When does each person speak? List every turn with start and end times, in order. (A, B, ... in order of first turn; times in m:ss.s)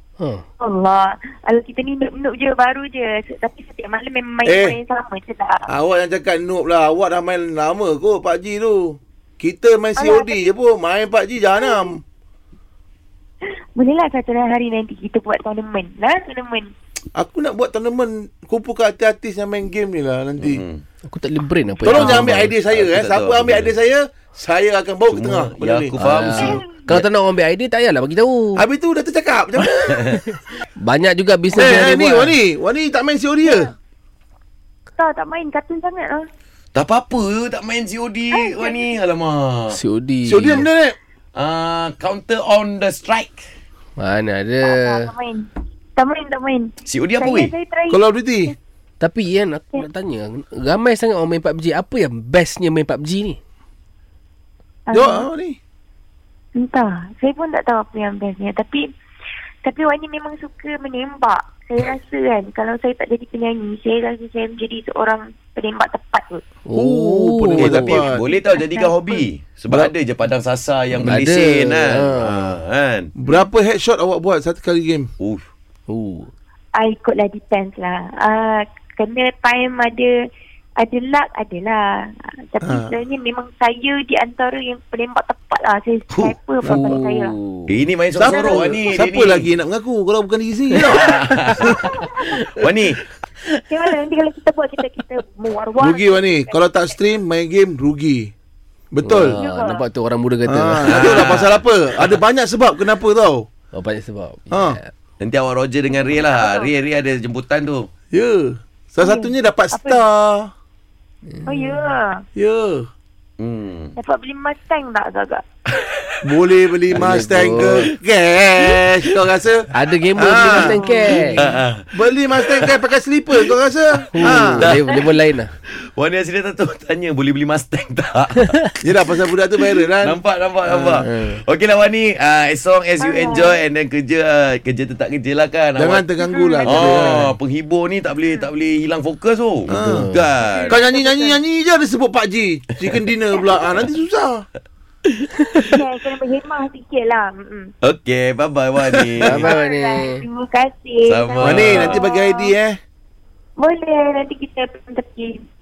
0:00.2-0:00.4 A
0:00.6-0:05.7 B
0:04.4-0:04.8 C
0:05.7-0:12.0 C
0:10.0-0:10.5 B
0:11.6-0:11.9 B
0:13.4-0:16.7 B
0:17.1-0:20.6 C
0:20.4-0:20.8 D
0:21.1-0:22.5 A
0:21.8-0:26.0 C
0:21.9-0:22.3 B
0:22.7-0:23.7 D
0:25.1-0:27.0 D
0:26.0-0:28.6 A
0:26.3-0:26.6 B
0:28.6-0:30.1 C
0:29.9-0:30.2 D
0:30.8-0:32.3 A
0:31.5-0:33.7 C
0:33.4-0:33.7 B
0:35.0-0:36.2 B
0:36.7-0:39.8 D
0:38.3-0:38.8 B
0:39.7-0:40.7 A
0:40.2-0:41.0 C
0:41.3-0:43.5 D
0:44.0-0:45.1 A
0:44.6-0:48.5 B
0:46.8-0:47.5 D
0:47.9-0:48.5 C
0:49.0-0:53.4 A
0:54.9-0:55.2 B
0:54.9-0:55.6 C
0:56.6-0:58.9 B
0:59.6-1:06.4 B
1:06.6-1:08.0 A
1:06.7-1:08.2 C
1:07.6-1:13.1 D
1:08.1-1:09.2 B
1:11.0-1:12.6 A
1:13.2-1:15.1 C
1:15.2-1:15.4 D
1:15.9-1:16.3 A
1:16.8-1:20.1 B
1:20.8-1:27.3 B
1:22.6-1:22.9 C
1:26.6-1:27.0 C
1:26.6-1:27.8 A
1:27.7-1:29.5 D
1:28.1-1:31.8 C
1:28.3-1:29.0 B
1:30.8-1:33.0 D
1:33.7-1:36.9 B
1:35.8-1:38.3 C
1:38.9-1:39.4 C
1:39.0-1:41.3 A
1:39.2-1:39.8 B
1:40.4-1:43.4 C
1:40.8-1:42.2 D
1:43.7-1:44.9 A
1:44.5-1:44.8 C
1:45.2-1:47.9 D
1:45.9-1:46.7 B
1:48.1-1:50.5 C
1:49.0-1:50.0 B
1:51.3-1:51.8 A
1:51.4-1:52.2 B
1:52.4-1:52.9 C
1:53.4-1:53.9 D
1:54.0-1:55.4 B
1:56.2-2:04.7 C
1:56.9-1:57.9 A
1:59.7-2:01.4 A
2:00.5-2:01.5 B
2:01.4-2:01.8 D
2:02.4-2:02.7 D
2:04.1-2:05.5 A
2:04.2-2:04.9 D
2:04.9-2:05.2 B
2:05.7-2:08.6 D
2:08.8-2:11.0 C
2:10.0-2:16.0 D
2:11.0-2:11.4 A
2:13.0-2:13.6 B
2:15.8-2:17.3 C
2:16.2-2:17.2 B
2:16.6-2:20.8 D
2:18.2-2:18.5 B
2:19.7-2:20.1 C
2:19.7-2:20.3 A
2:20.4-2:21.4 B
2:20.7-2:24.4 C
2:23.3-2:23.8 B
2:25.6-2:27.7 B
2:27.8-2:29.5 D
2:29.0-2:29.4 C
2:29.2-2:30.2 A
2:29.4-2:32.5 B
2:31.0-2:32.0 D
2:31.4-2:32.8 C
2:33.6-2:35.4 B